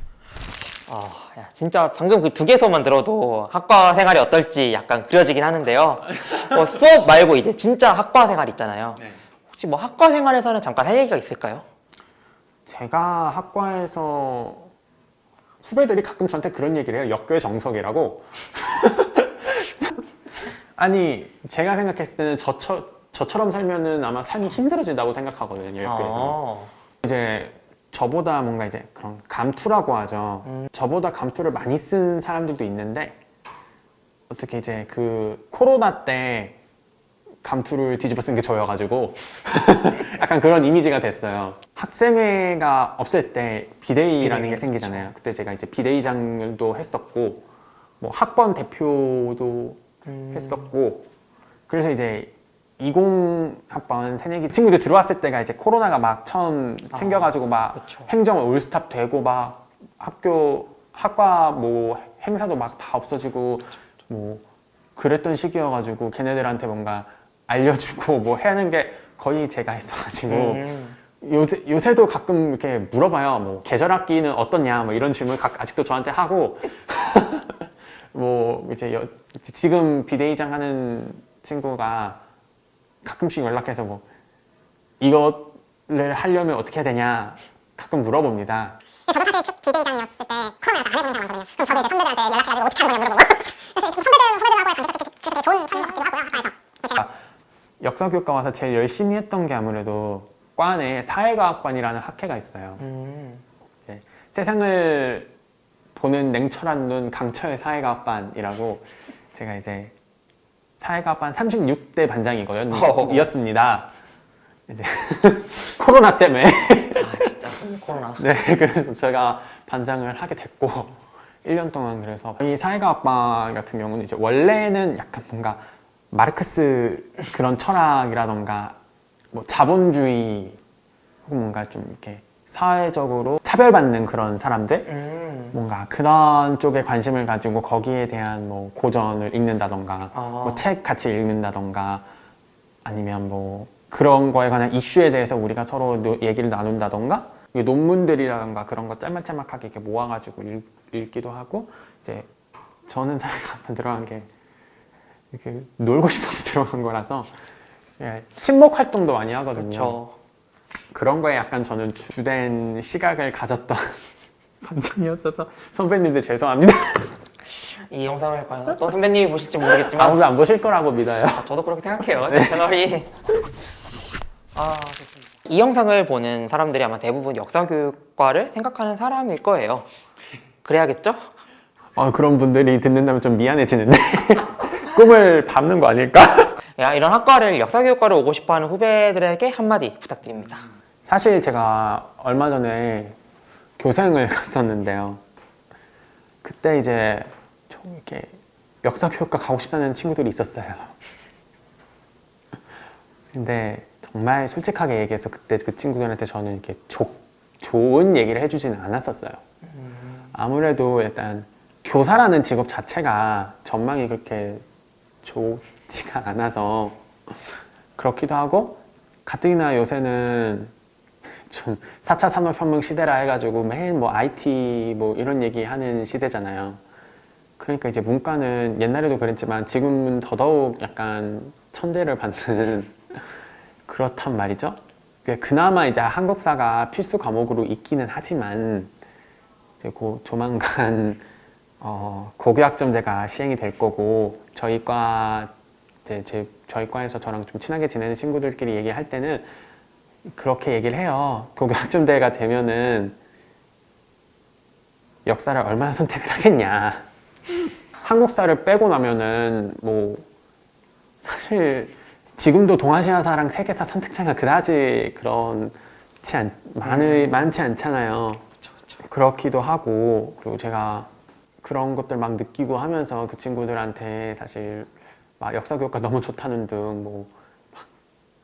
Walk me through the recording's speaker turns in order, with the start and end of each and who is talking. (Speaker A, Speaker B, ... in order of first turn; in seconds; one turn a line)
Speaker A: 0.9-11.6
Speaker B: 12.7-14.7
Speaker B: 15.6-26.4
Speaker A: 25.8-26.7
Speaker B: 27.0-33.2
Speaker B: 34.3-36.6
Speaker B: 37.4-47.4
Speaker A: 44.2-45.1
Speaker B: 48.0-51.1
Speaker A: 50.0-50.7
Speaker B: 51.7-64.4
Speaker A: 56.9-58.1
Speaker B: 65.0-70.7
Speaker A: 70.3-71.0
Speaker B: 71.2-82.2
Speaker B: 83.0-84.0
Speaker B: 85.0-88.8
Speaker C: 89.1-97.0
Speaker B: 97.8-102.8
Speaker A: 102.8-103.4
Speaker B: 103.9-105.3
Speaker B: 105.9-109.9
Speaker B: 110.8-113.9
Speaker A: 112.7-113.3
Speaker B: 114.7-117.3
Speaker A: 117.0-118.2
Speaker B: 118.2-128.8
Speaker B: 129.3-130.6
Speaker B: 131.2-134.9
Speaker A: 134.9-135.6
Speaker B: 135.5-142.0
Speaker A: 140.1-140.6
Speaker B: 142.8-152.3
Speaker B: 152.9-154.3
Speaker B: 155.3-157.3
Speaker B: 158.0-160.0
Speaker A: 159.5-160.2
Speaker B: 160.9-164.0
Speaker B: 164.6-167.2
Speaker A: 167.7-170.2
Speaker B: 169.7-171.5
Speaker A: 171.3-173.1
Speaker B: 172.2-172.6
Speaker A: 174.5-179.9
Speaker A: 180.6-181.3
Speaker B: 181.9-186.6
Speaker A: 186.8-190.7
Speaker B: 191.0-193.2
Speaker B: 193.8-195.2
Speaker B: 196.4-200.9
Speaker B: 203.3-209.4
Speaker A: 209.6-210.3
Speaker B: 210.3-214.6
Speaker B: 215.2-220.7
Speaker B: 221.5-226.8
Speaker B: 227.6-233.2
Speaker B: 233.9-238.9
Speaker B: 239.8-241.2
Speaker B: 241.8-245.5
Speaker B: 246.0-249.5
Speaker B: 250.2-253.2
Speaker B: 255.2-257.1
Speaker B: 258.0-260.2
Speaker B: 261.2-268.4
Speaker A: 266.8-267.4
Speaker A: 268.6-269.0
Speaker B: 269.0-271.1
Speaker B: 271.6-277.8